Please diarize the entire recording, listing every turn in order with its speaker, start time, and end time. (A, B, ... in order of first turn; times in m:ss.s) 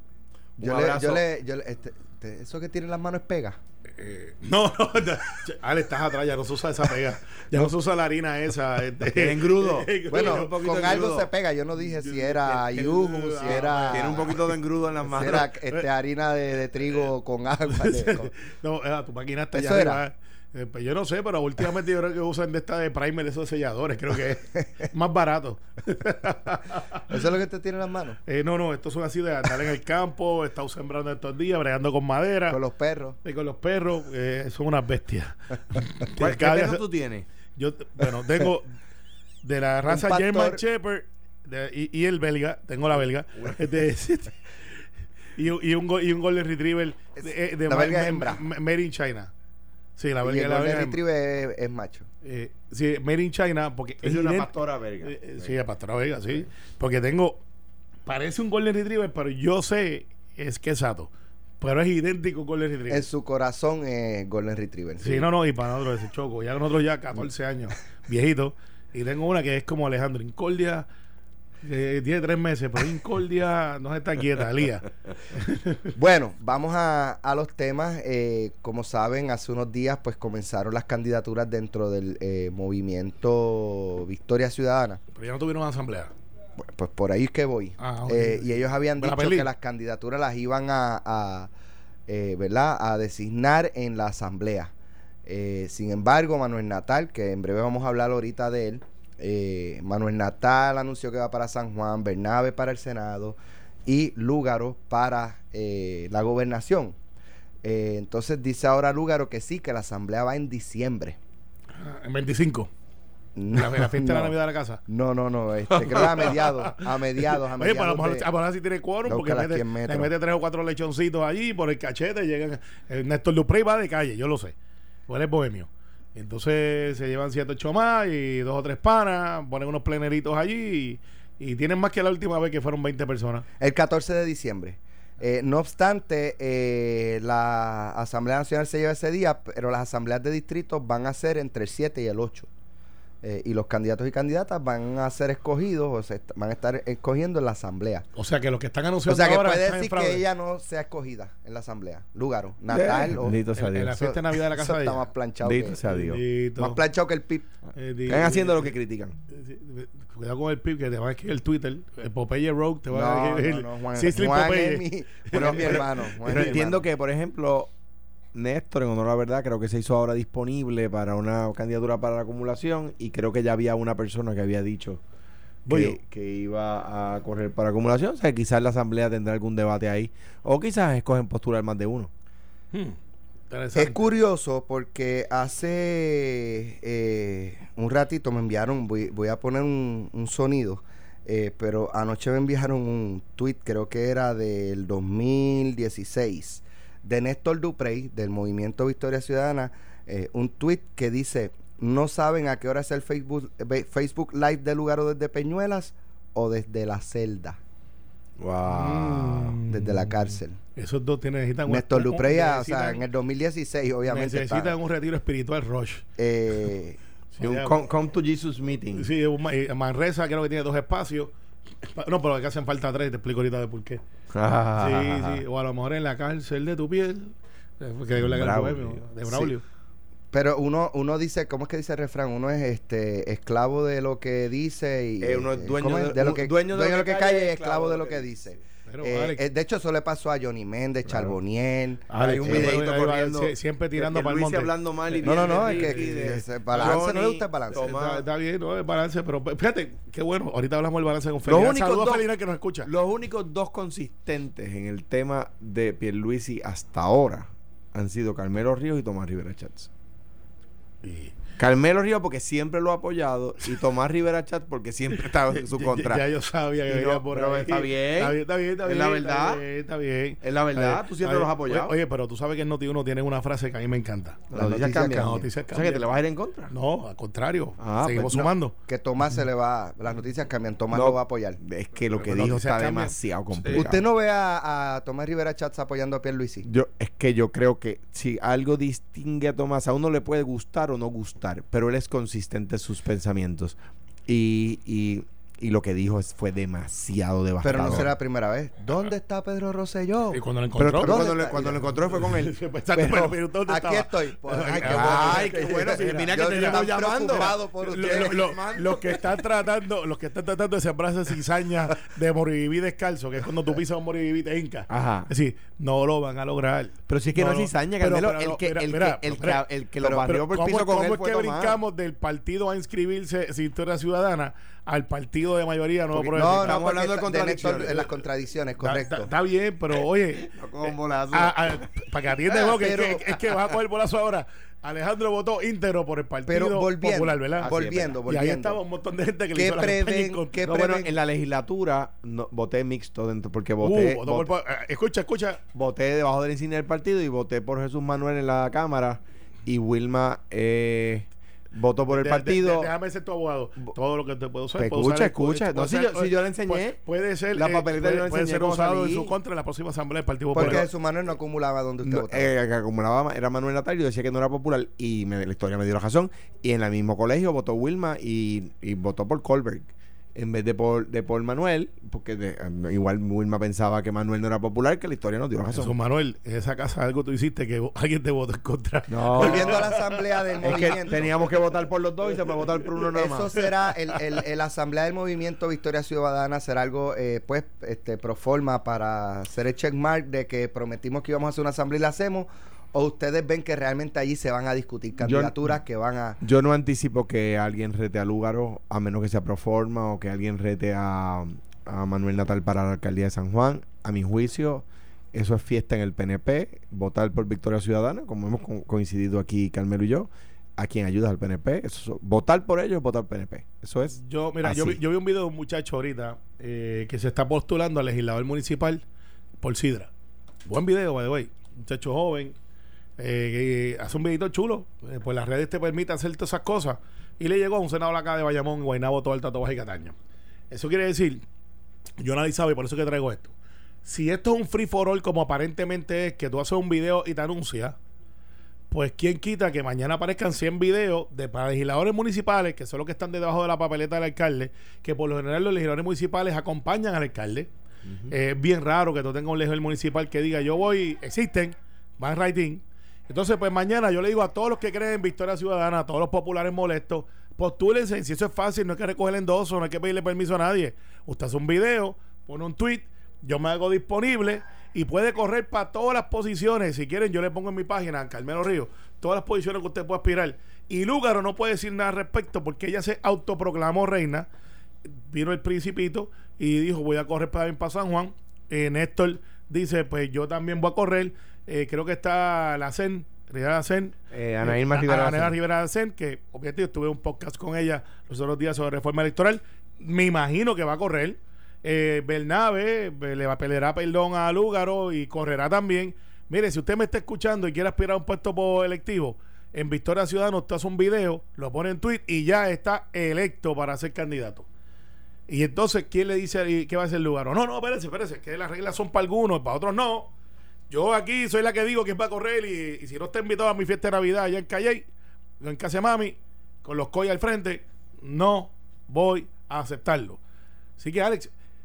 0:00.6-0:01.2 A
0:00.6-0:03.6 B
0:04.0-0:11.1 C
0:09.1-0:11.3 A
0:10.1-0:14.3 B
0:11.8-0:14.4 C
0:13.5-0:15.5 A
0:15.1-0:18.3 B
0:15.3-0:15.8 C
0:17.7-0:27.0 C
0:19.5-0:20.0 B
0:27.1-0:28.2 B
0:28.3-0:32.6 C
0:32.5-0:33.2 B
0:33.2-0:36.8 C
0:36.1-0:37.3 A
0:37.6-0:38.7 C
0:39.4-0:44.4 C
0:39.9-0:40.6 B
0:45.4-0:49.3 C
0:47.2-0:48.4 B
0:50.0-0:51.0 C
0:50.2-0:52.1 B
0:52.2-0:54.5 C
0:54.0-0:55.6 A
0:55.0-0:57.4 C
0:58.1-1:01.1 C
1:01.6-1:03.1 C
1:02.9-1:05.3 B
1:05.0-1:10.9 C
1:11.6-1:15.9 C
1:16.0-1:25.0 B
1:25.2-1:26.1 C
1:26.6-1:31.5 B
1:27.8-1:29.5 C
1:32.1-1:34.7 B
1:35.3-1:47.0 B
1:47.6-1:51.2 B
1:51.8-1:52.7 C
1:53.4-1:54.3 B
1:53.5-1:54.8 C
1:54.9-1:58.3 B
1:55.7-2:04.6 C
1:59.1-2:00.1 B
2:05.1-2:13.4 C
2:13.6-2:22.5 B
2:23.2-2:28.1 B
2:28.2-2:30.2 C
2:29.1-2:33.4 B
2:32.7-2:34.0 A
2:33.5-2:35.1 C
2:34.0-2:35.8 B
2:35.4-2:36.2 A
2:35.9-2:36.8 C
2:36.6-2:37.5 B
2:37.8-2:38.7 C
2:38.1-2:39.2 A
2:39.3-2:46.6 C
2:42.9-2:46.8 B
2:45.3-2:47.7 A
2:48.3-2:55.0 A
2:55.7-2:56.0 C
2:55.7-3:02.1 A
3:03.5-3:04.1 C
3:03.8-3:27.6 B
3:28.4-3:29.6 A
3:28.7-3:33.0 C
3:29.7-3:30.6 B
3:31.7-3:34.8 B
3:34.1-3:36.0 C
3:36.2-3:37.0 B
3:37.3-3:37.8 C
3:37.4-3:39.1 A
3:39.0-3:41.3 C
3:41.8-3:44.0 C
3:44.3-3:45.4 A
3:44.8-3:49.6 C
3:48.2-3:49.0 A
3:50.3-4:02.8 B
3:55.2-3:58.6 A
3:58.9-3:59.4 C
4:01.1-4:01.4 A
4:02.1-4:07.0 C
4:02.2-4:08.2 A
4:05.2-4:07.9 B
4:07.8-4:12.9 C
4:11.4-4:12.3 A
4:12.8-4:19.9 A
4:21.0-4:21.3 C
4:21.6-4:26.2 A
4:25.2-4:36.1 C
4:26.9-4:29.6 A
4:30.4-4:32.0 A
4:34.5-4:36.7 A
4:34.5-4:35.5 B
4:36.7-4:38.7 C
4:37.8-4:38.5 A
4:38.9-4:41.6 B
4:40.9-4:44.0 A
4:42.2-4:43.8 C
4:43.7-4:46.7 B
4:46.6-4:58.1 A
4:57.6-5:00.4 B
5:00.3-5:19.6 C
5:00.8-5:03.4 A
5:01.0-5:01.8 B
5:03.7-5:08.4 B
5:04.8-5:09.4 A
5:14.9-5:15.3 A
5:17.1-5:21.8 A
5:20.0-5:20.3 B
5:20.3-5:26.8 C
5:26.2-5:28.1 A
5:26.3-5:29.3 B
5:28.8-5:37.7 C
5:30.4-5:31.8 A
5:32.5-5:33.4 B
5:36.5-5:38.8 B
5:37.6-5:38.2 A
5:38.3-5:40.8 C
5:39.5-5:41.1 B
5:40.7-5:44.5 A
5:43.8-5:45.6 C
5:45.7-5:52.9 A
5:52.1-6:00.8 C
5:54.8-5:57.0 A
5:57.5-5:59.3 A
6:00.5-6:02.5 B
6:00.6-6:00.8 A
6:02.0-6:15.9 A
6:15.8-6:21.0 C
6:19.1-6:19.9 A
6:19.4-6:21.2 B
6:20.6-6:23.5 A
6:23.1-6:36.4 B
6:35.2-6:35.7 A
6:36.4-6:55.0 A
6:54.2-6:59.0 C
6:59.6-7:00.1 C
7:00.7-7:02.6 C
7:03.2-7:10.2 C
7:10.7-7:11.4 C
7:12.2-7:13.5 C
7:14.0-7:18.0 C
7:18.9-7:27.7 C
7:28.3-7:54.5 C
7:55.0-8:24.7 C
8:04.3-8:05.6 A
8:25.5-8:30.3 C
8:30.9-8:35.0 C
8:35.6-8:40.4 C
8:41.0-8:41.5 C